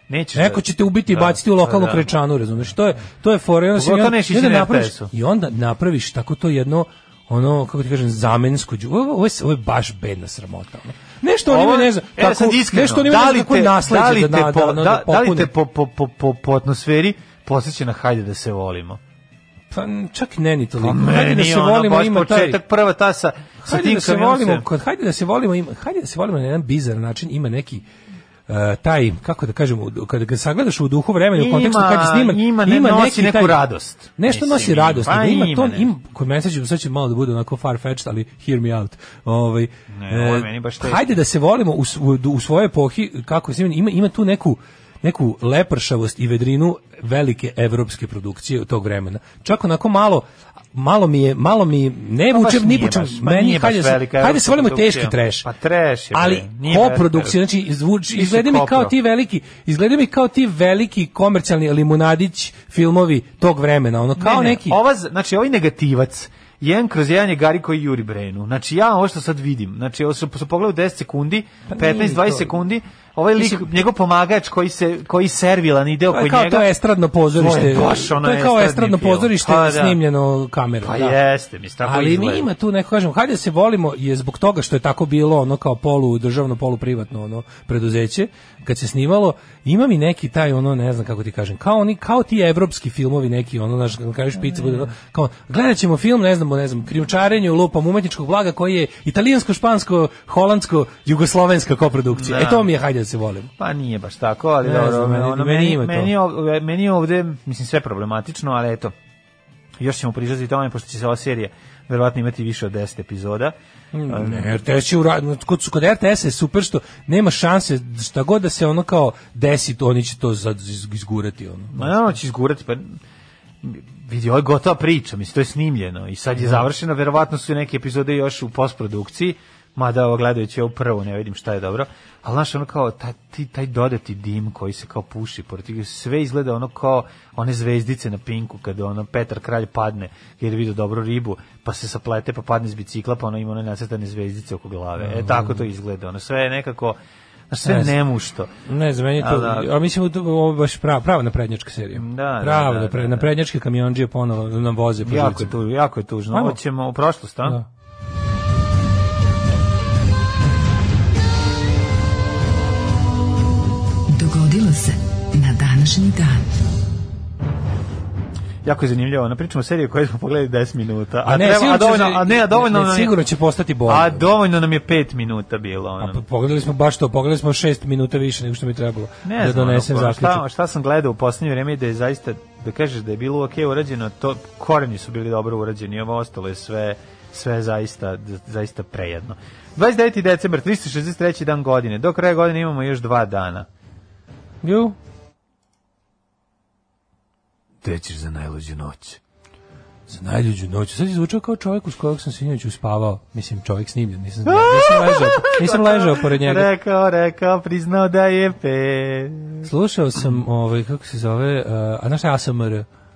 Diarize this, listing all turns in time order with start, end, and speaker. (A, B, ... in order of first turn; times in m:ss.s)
0:00.1-0:02.1 A
0:00.4-0:15.5 B
0:03.8-0:05.1 A
0:11.5-0:19.0 A
0:19.7-0:22.6 B
0:20.8-0:24.7 A
0:23.7-0:27.8 B
0:28.5-0:33.6 B
0:31.4-0:35.9 A
0:34.2-0:55.5 B
0:39.9-0:41.2 A
0:52.3-0:57.4 A
0:56.1-1:04.8 B
0:58.2-0:58.9 A
1:04.2-1:16.7 A
1:11.7-1:12.5 B
1:13.4-1:13.7 B
1:16.1-1:21.2 B
1:17.4-1:20.0 A
1:20.8-1:22.5 A
1:21.8-1:43.5 B
1:34.5-1:34.9 A
1:42.1-1:42.7 A
1:43.6-1:48.9 A
1:44.6-1:46.1 B
1:49.8-1:53.6 A
1:53.9-2:01.9 B
1:54.1-1:54.6 A
2:01.7-2:03.0 A
2:03.6-2:27.0 A
2:25.0-2:25.6 B
2:27.5-2:28.5 A
2:27.6-2:28.0 B
2:28.7-2:35.5 B
2:29.2-2:29.7 A
2:32.0-2:33.3 A
2:35.0-2:37.6 A
2:36.3-2:36.6 B
2:44.1-2:46.4 C
2:48.6-2:53.2 A
2:51.2-2:54.3 B
2:53.9-2:56.2 A
2:56.0-3:00.4 B
2:59.2-3:13.7 A
3:14.6-3:15.0 B
3:17.8-3:19.2 A
3:20.1-3:26.7 B
3:24.4-3:29.7 A
3:29.6-3:32.9 B